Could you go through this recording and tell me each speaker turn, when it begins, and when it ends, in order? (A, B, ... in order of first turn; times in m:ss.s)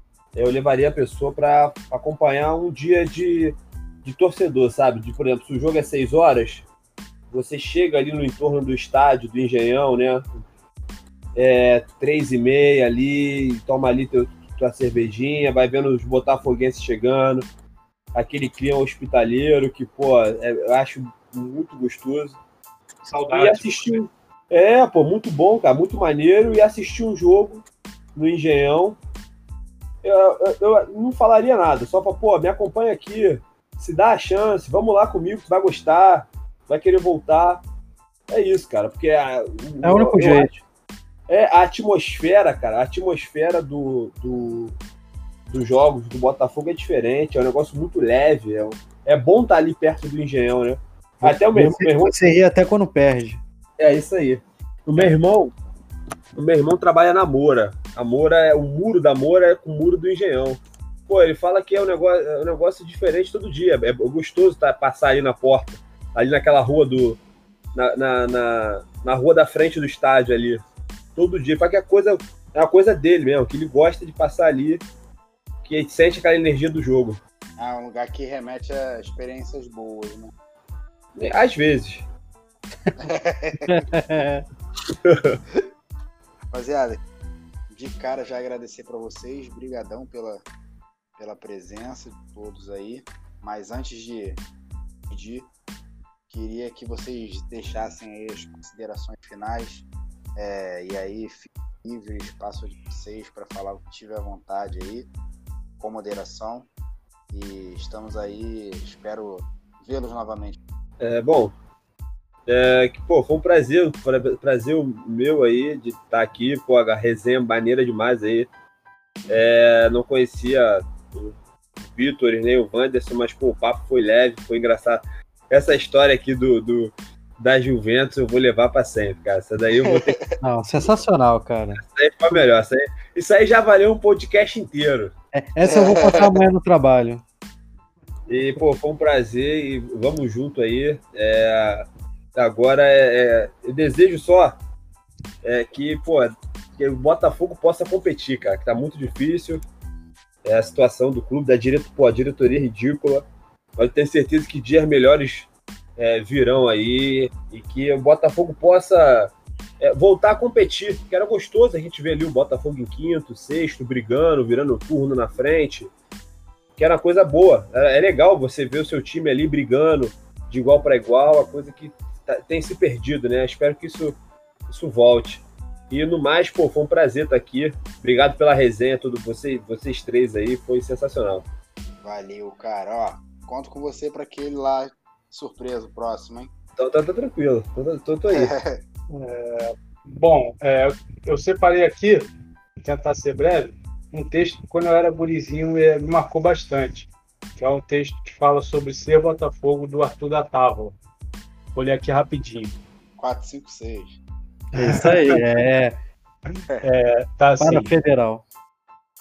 0:00.3-0:06.7 A
0:07.3-0:10.3 A
0:11.4-0:17.4 A
0:18.2-0:22.4 A
0:23.0-0:24.0 B
0:23.3-0:29.0 A
0:30.0-0:37.6 A
0:38.3-0:40.6 A
0:39.8-0:40.6 C
0:41.3-0:44.8 A
0:45.5-0:52.1 A
0:51.2-0:53.4 C
0:53.8-0:55.6 A
0:56.4-1:07.2 A
1:07.8-1:10.6 A
1:11.2-1:14.8 A
1:15.6-1:17.2 A
1:17.6-1:20.3 D
1:21.2-1:22.0 A
1:23.0-1:23.8 D
1:23.7-1:24.4 C
1:25.0-1:25.4 A
1:26.5-1:27.0 D
1:27.7-1:30.4 D
1:31.2-1:34.4 D
1:35.1-1:35.5 D
1:36.3-1:39.8 D
1:40.4-1:45.1 D
1:45.8-1:46.7 D
1:47.3-1:50.6 D
1:51.0-1:51.6 A
1:52.5-1:58.5 A
1:59.3-2:10.2 A
2:09.8-2:10.2 D
2:10.4-2:11.8 C
2:11.8-2:15.1 A
2:15.3-2:17.2 C
2:15.6-2:16.4 D
2:18.3-2:24.6 A
2:25.4-2:29.6 A
2:30.4-2:45.9 A
2:46.8-2:54.2 A
2:54.7-3:01.5 A
3:02.0-3:06.5 D
3:06.8-3:08.5 A
3:08.3-3:08.8 D
3:09.1-3:12.3 B
3:12.8-3:21.0 B
3:21.7-3:22.8 B
3:23.2-3:24.2 D
3:24.7-3:26.0 C
3:26.5-3:27.9 B
3:27.6-3:28.4 C